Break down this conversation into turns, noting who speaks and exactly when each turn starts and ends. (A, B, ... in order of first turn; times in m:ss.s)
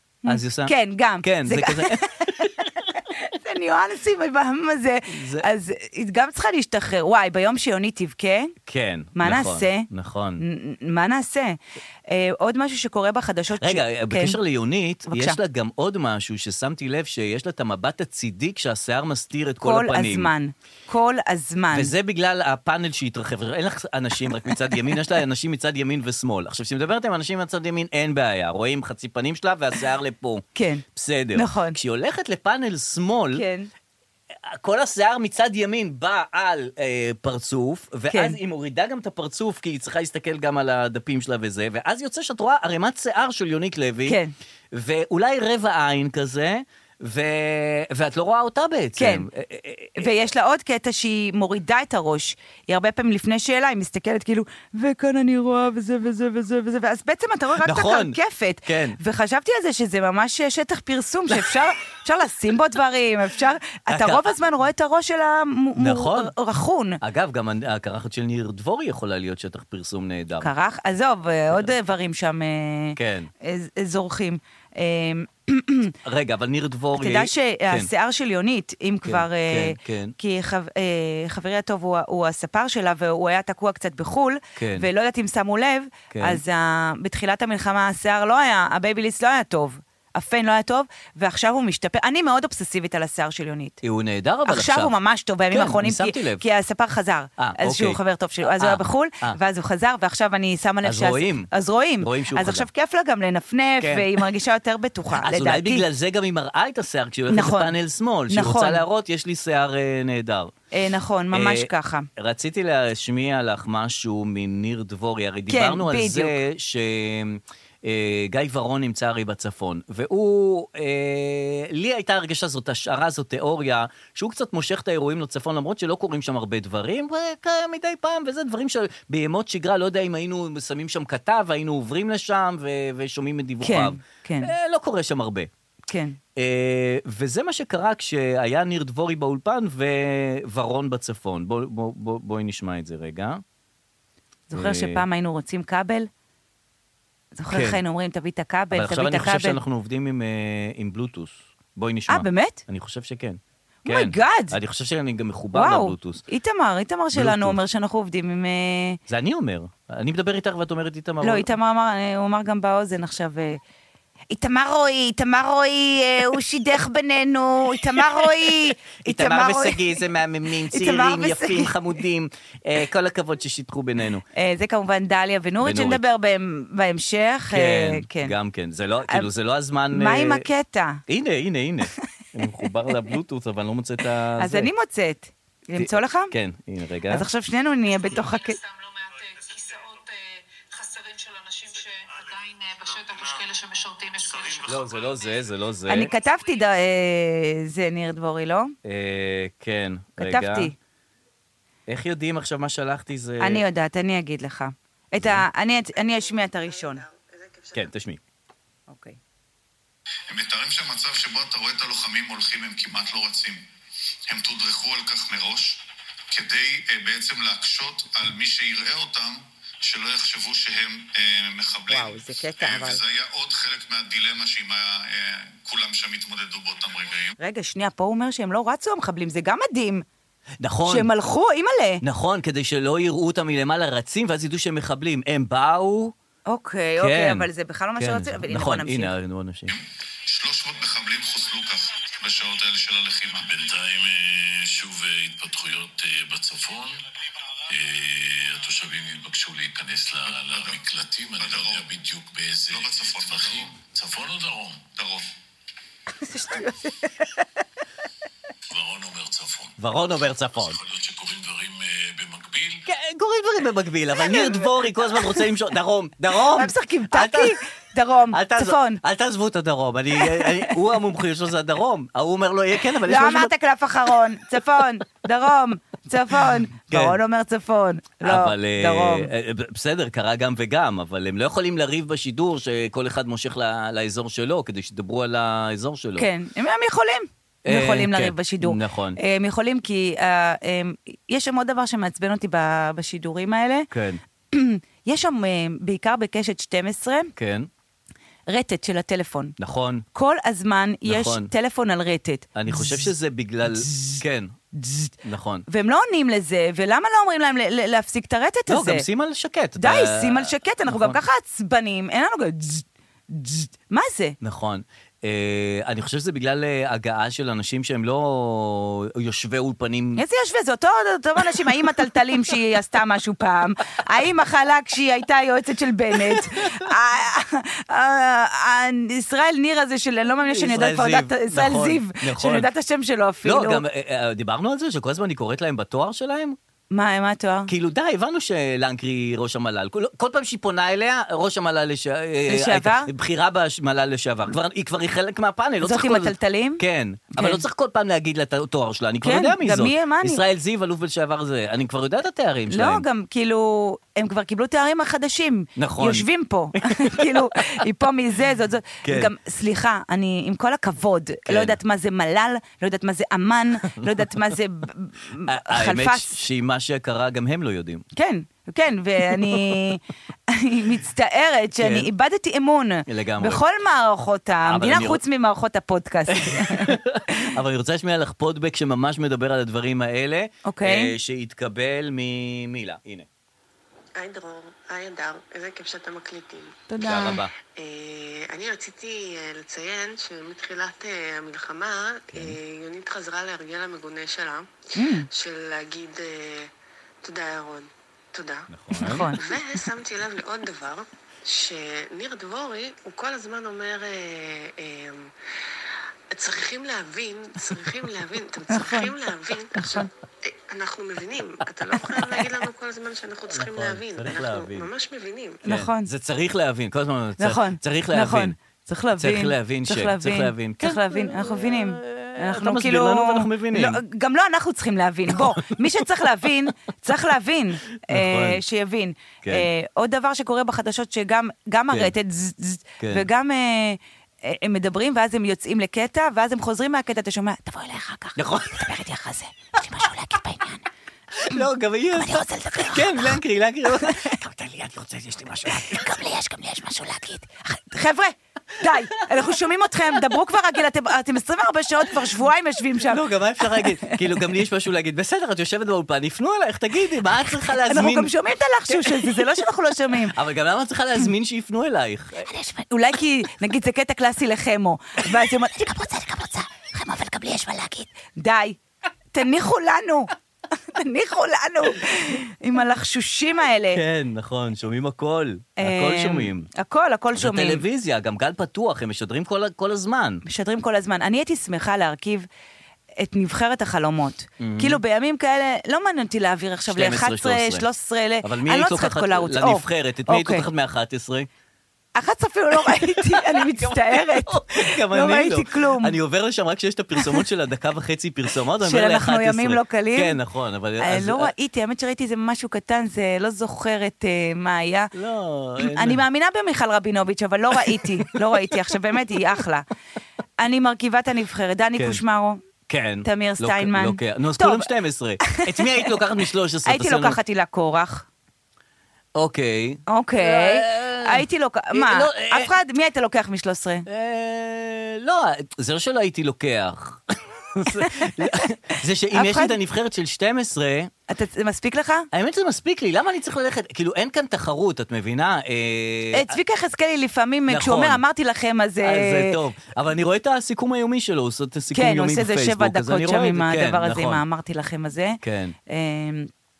0:00.2-0:08.5 A
0:00.3-0:02.8 B
0:05.1-0:05.5 B
0:08.6-0:10.4 B
0:09.2-0:09.9 A
0:10.4-0:14.4 A
0:13.6-0:20.3 B
0:15.1-0:15.4 A
0:19.6-0:21.9 A
0:21.7-0:33.4 B
0:30.5-0:31.8 A
0:33.3-0:33.7 A
0:34.4-0:44.2 B
0:38.1-0:38.4 A
0:44.0-0:44.3 A
0:44.7-0:50.1 B
0:49.0-0:49.3 A
0:50.0-1:07.0 A
0:57.6-0:59.0 B
1:03.9-1:04.3 B
1:05.8-1:06.3 B
1:07.0-1:10.5 B
1:10.4-1:15.9 A
1:13.0-1:13.3 B
1:16.0-1:17.9 B
1:17.0-1:33.8 A
1:19.0-1:20.1 B
1:24.6-1:24.9 B
1:26.1-1:26.4 B
1:33.8-1:34.9 B
1:34.4-1:45.8 A
1:35.5-1:36.4 B
1:37.4-1:39.4 B
1:40.8-1:41.5 B
1:42.0-1:42.7 B
1:43.8-1:44.1 B
1:45.2-1:50.5 B
1:47.3-1:47.8 A
1:48.3-1:48.8 A
1:50.7-1:52.1 A
1:51.3-2:15.5 B
1:55.5-1:56.4 A
2:13.6-2:14.5 A
2:15.9-2:16.2 A
2:16.4-2:23.4 B
2:24.5-2:26.1 A
2:24.5-2:25.0 B
2:27.4-2:29.6 A
2:27.5-2:27.8 B
2:28.7-2:36.2 B
2:32.1-2:32.6 A
2:33.8-2:34.6 A
2:35.5-2:39.0 A
2:37.1-2:37.6 B
2:39.1-2:41.5 B
2:41.2-2:43.6 A
2:44.3-2:50.0 A
2:49.0-2:54.2 B
2:50.7-2:51.8 A
2:54.3-2:58.3 A
2:55.6-2:56.0 B
2:57.5-3:00.4 B
2:59.9-3:01.0 A
3:01.1-3:04.7 B
3:02.6-3:03.1 A
3:04.4-3:06.3 A
3:05.8-3:07.2 B
3:07.1-3:08.6 A
3:07.9-3:15.5 C
3:14.7-3:16.1 B
3:15.9-3:18.7 A
3:16.1-3:16.6 C
3:18.8-3:20.7 B
3:20.2-3:20.8 A
3:21.9-3:23.6 B
3:23.4-3:27.0 A
3:25.2-3:25.4 B
3:26.0-3:27.9 D
3:27.7-3:28.2 B
3:28.9-3:29.2 A
3:30.3-3:33.7 E
3:34.3-3:47.3 E
3:41.9-3:43.0 A
3:47.4-3:50.0 A
3:50.6-3:51.1 B
3:50.8-3:52.0 A
3:52.0-3:56.1 B
3:56.5-3:59.1 A
3:57.0-3:59.8 B
3:59.7-4:03.5 E
4:03.4-4:07.0 F
4:07.7-4:14.8 F
4:10.5-4:10.8 E
4:11.4-4:11.9 E
4:12.7-4:13.8 E
4:14.9-4:15.3 E
4:16.1-4:17.5 A
4:18.8-4:19.7 F
4:19.8-4:20.8 B
4:20.8-4:22.8 F
4:22.8-4:27.5 B
4:24.2-4:25.5 A
4:26.4-4:29.0 A
4:28.3-4:33.5 B
4:30.1-4:30.8 A
4:33.0-4:39.3 A
4:36.9-4:37.2 B
4:38.2-4:46.3 B
4:46.2-4:53.9 A
4:47.6-4:49.2 B
4:53.9-4:54.2 B
4:54.5-4:57.3 A
4:57.4-4:57.7 B
4:58.5-4:59.6 A
4:59.6-5:00.0 B
5:00.1-5:03.1 A
5:01.0-5:01.5 B
5:02.5-5:04.6 B
5:03.7-5:04.2 A
5:04.7-5:05.1 A
5:05.2-5:05.6 B
5:05.7-5:09.0 A
5:08.7-5:11.2 B
5:09.8-5:14.4 A
5:14.4-5:20.2 B
5:20.2-5:33.8 A
5:26.3-5:26.9 B
5:30.5-5:32.7 B
5:33.4-5:36.6 B
5:36.9-5:37.7 A
5:37.7-5:53.0 B
5:42.5-5:43.1 A
5:45.8-5:46.8 A
5:47.4-5:47.6 A
5:49.2-5:50.4 A
5:52.7-6:06.3 A
5:55.8-5:56.3 B
5:56.8-5:57.8 B
5:59.0-5:59.3 B
6:01.5-6:01.8 B
6:05.4-6:08.0 B
6:08.1-6:17.5 A
6:11.8-6:12.1 B
6:13.1-6:13.6 B
6:14.6-6:15.2 B
6:16.3-6:23.3 B
6:20.6-6:21.1 A
6:24.2-6:26.8 D
6:26.9-6:27.4 A
6:27.0-6:27.5 B
6:27.8-6:36.7 D
6:35.0-6:35.3 A
6:37.2-6:45.3 D
6:38.7-6:39.3 B
6:39.0-6:39.5 A
6:46.3-6:55.6 D
6:48.7-6:49.1 A
6:49.8-6:50.1 A
6:53.5-6:54.9 B
6:55.6-6:56.1 A
6:55.7-6:58.5 B
6:57.4-7:20.8 A
6:59.2-7:04.0 B
7:05.3-7:06.0 B
7:08.0-7:08.6 B
7:09.4-7:09.7 B
7:13.0-7:13.2 B
7:18.4-7:18.8 B
7:21.3-7:26.1 B
7:21.5-7:24.4 A
7:25.7-7:34.2 A
7:33.0-7:38.3 B
7:37.6-7:40.4 A
7:38.9-7:39.4 B
7:40.3-7:42.5 B
7:42.4-7:48.8 A
7:49.3-7:54.0 A
7:53.9-7:56.7 B
7:55.8-7:57.8 A
7:57.4-8:00.4 B
8:00.4-8:02.5 A
8:03.2-8:10.7 A
8:04.6-8:05.0 B
8:06.9-8:07.8 B
8:08.4-8:11.5 B
8:12.1-8:16.2 A
8:12.9-8:21.5 B
8:17.2-8:17.4 A
8:18.8-8:20.4 A
8:21.0-8:25.1 A
8:25.1-8:26.2 B
8:25.8-8:29.8 A
8:27.9-8:28.4 B
8:30.6-8:32.6 A
8:32.9-8:37.4 B
8:33.2-8:34.9 A
8:35.4-8:36.1 A
8:36.8-8:38.2 A
8:39.3-8:42.7 B
8:40.1-8:44.0 A
8:44.0-8:51.1 B
8:48.0-8:48.7 A
8:49.3-8:49.8 A
8:51.3-8:52.3 A
8:52.3-8:56.6 B
8:56.3-8:59.6 A
8:57.7-8:58.2 B
8:59.0-9:04.4 B
9:01.9-9:06.5 A
9:05.4-9:05.8 B